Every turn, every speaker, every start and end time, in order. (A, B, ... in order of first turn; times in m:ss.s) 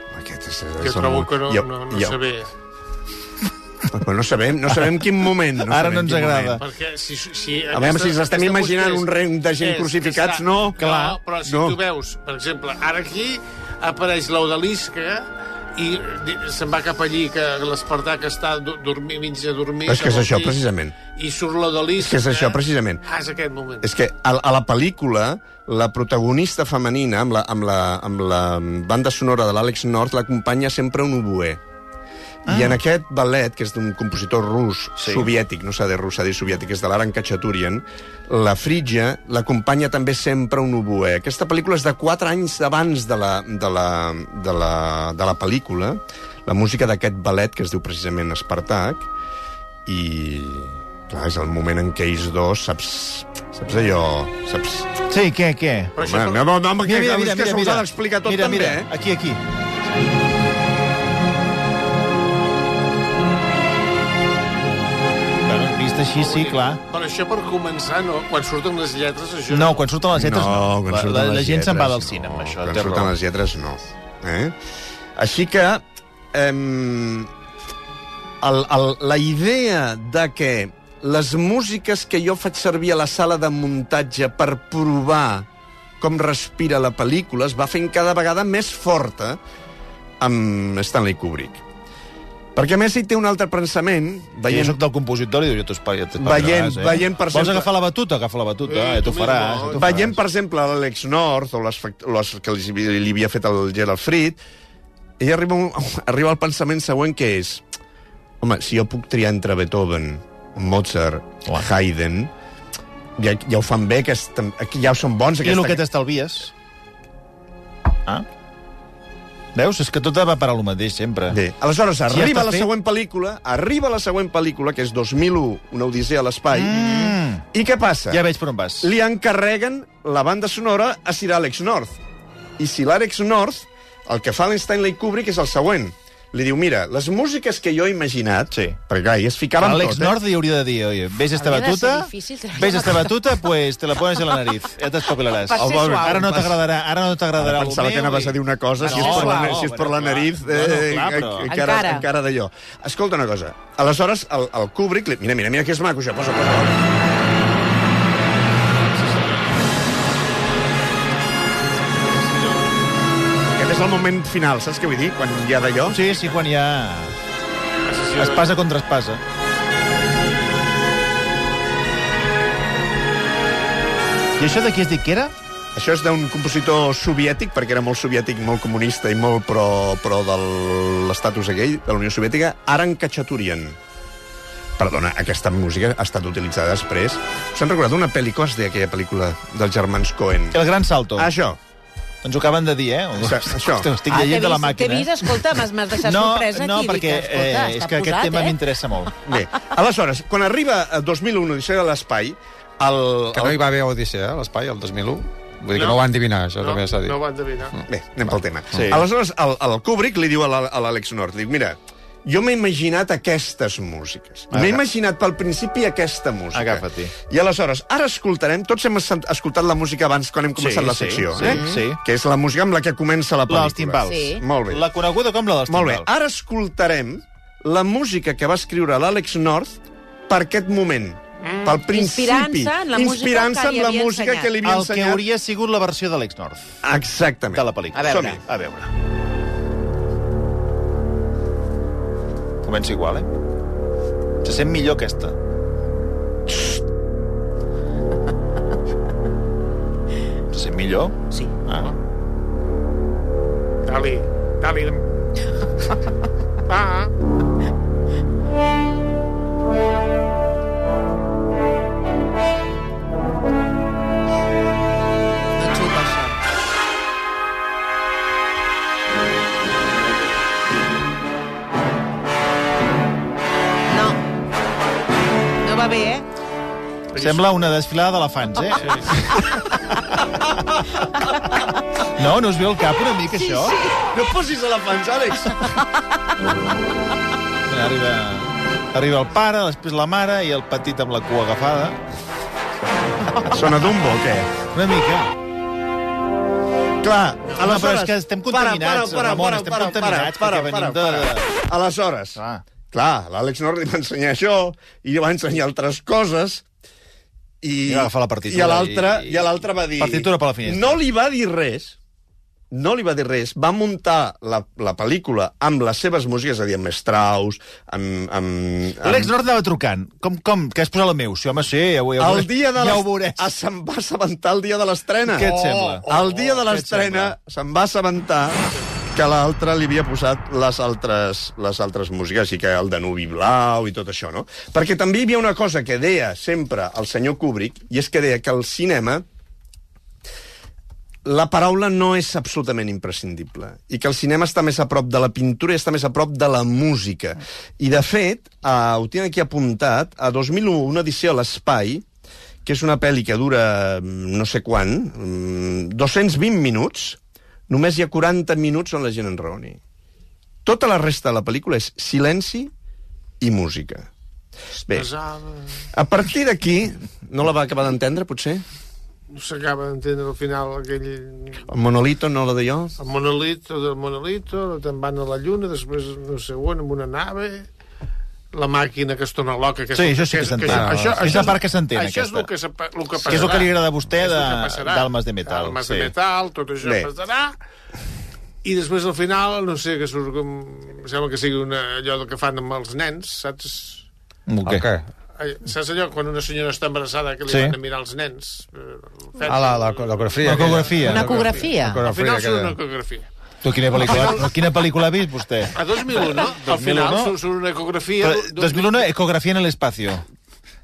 0:00.1-0:02.2 A
0:00.8-0:02.5 B
0:03.9-0:06.6 A
0:05.6-0:06.6 C
0:06.6-0:20.6 B
0:07.7-0:11.8 A
0:19.9-0:21.0 A
0:21.1-0:23.9 B
0:22.0-0:23.0 A
0:23.8-0:31.6 A
0:32.5-0:32.8 C
0:32.5-0:49.1 A
0:35.0-0:35.3 C
0:49.9-0:54.9 A
0:55.1-0:55.9 C
0:56.0-0:56.5 B
0:56.0-0:58.9 A
0:56.8-0:59.4 C
1:05.4-1:06.8 C
1:06.2-1:09.9 B
1:09.5-1:13.1 C
1:10.2-1:14.6 A
1:15.2-1:17.3 A
1:18.4-1:25.5 A
1:26.0-1:29.4 A
1:30.2-1:31.6 A
1:32.6-1:34.8 A
1:34.5-1:40.2 C
1:36.2-1:37.7 A
1:38.6-1:40.0 B
1:39.8-1:44.4 A
1:45.2-1:47.6 A
1:48.4-1:52.3 A
1:53.2-1:55.8 A
1:55.4-1:56.5 C
1:59.6-2:01.4 C
2:01.3-2:08.2 A
2:02.1-2:02.7 C
2:06.5-2:07.5 C
2:08.1-2:08.9 C
2:08.8-2:12.0 A
2:12.6-2:20.2 A
2:18.5-2:18.8 C
2:19.6-2:31.5 C
2:21.3-2:23.2 D
2:25.5-2:26.3 D
2:25.5-2:26.6 A
2:27.4-2:36.9 A
2:28.8-2:29.6 D
2:31.5-2:32.1 D
2:38.9-2:39.6 B
2:42.1-2:42.5 B
2:43.4-2:46.0 A
2:45.9-2:46.4 B
2:45.9-2:47.2 C
2:47.8-2:48.5 B
2:48.2-2:49.2 C
2:54.4-2:55.3 C
2:55.8-3:03.8 A
3:04.8-3:10.6 A
3:10.5-3:11.3 C
3:11.2-3:11.6 A
3:12.2-3:15.4 C
3:13.2-3:13.9 A
3:14.1-3:18.6 D
3:16.0-3:19.1 C
3:19.2-3:23.6 A
3:23.3-3:27.2 E
3:25.7-3:26.0 B
3:26.6-3:27.8 B
3:27.9-3:44.9 A
3:28.7-3:29.0 C
3:34.5-3:34.8 C
3:36.5-3:37.1 C
3:40.6-3:42.0 C
3:41.4-3:41.8 D
3:43.5-3:46.1 C
3:44.0-3:44.4 D
3:45.7-3:55.2 A
3:51.4-3:51.7 B
3:51.9-3:54.5 D
3:54.6-3:56.7 C
3:56.8-3:58.4 A
3:57.5-3:58.9 C
3:58.0-3:58.3 D
4:02.6-4:03.3 C
4:04.4-4:05.4 C
4:10.5-4:11.9 C
4:13.9-4:15.1 B
4:16.7-4:17.1 B
4:25.6-4:26.4 D
4:33.9-4:34.2 D
4:35.6-4:36.3 D
4:37.2-4:37.4 B
4:37.2-4:39.0 C
4:38.8-4:39.3 B
4:42.1-4:43.8 C
4:43.3-4:44.0 D
4:44.1-4:45.8 A
4:45.6-4:45.9 D
4:47.7-4:52.0 C
4:53.5-4:54.5 A
4:54.6-4:55.3 C
4:57.0-5:02.4 A
4:57.5-5:01.5 C
5:02.4-5:02.6 C
5:02.9-5:06.7 A
5:07.6-5:12.0 A
5:07.9-5:11.0 C
5:12.7-5:19.3 A
5:19.0-5:23.5 C
5:22.2-5:39.2 A
5:25.3-5:27.4 C
5:25.4-5:26.4 B
5:41.2-5:52.0 A
5:52.6-5:59.8 A
6:00.6-6:02.7 A
6:03.4-6:04.1 A
6:04.9-6:05.7 B
6:05.9-6:08.6 A
6:09.3-6:11.7 B
6:11.7-6:13.0 A
6:13.0-6:17.7 B
6:18.5-6:27.6 B
6:20.0-6:22.5 C
6:20.7-6:21.4 E
6:23.2-6:26.1 C
6:26.8-6:27.1 A
6:28.6-6:34.0 B
6:34.5-6:34.9 C
6:34.6-6:35.1 E
6:35.4-6:43.3 B
6:37.5-6:37.8 C
6:39.4-6:42.8 E
6:40.4-6:41.3 C
6:41.0-6:42.0 D
6:43.6-6:45.8 C
6:43.9-6:44.5 B
6:45.8-6:49.1 B
6:46.4-6:47.4 C
6:48.2-6:50.2 C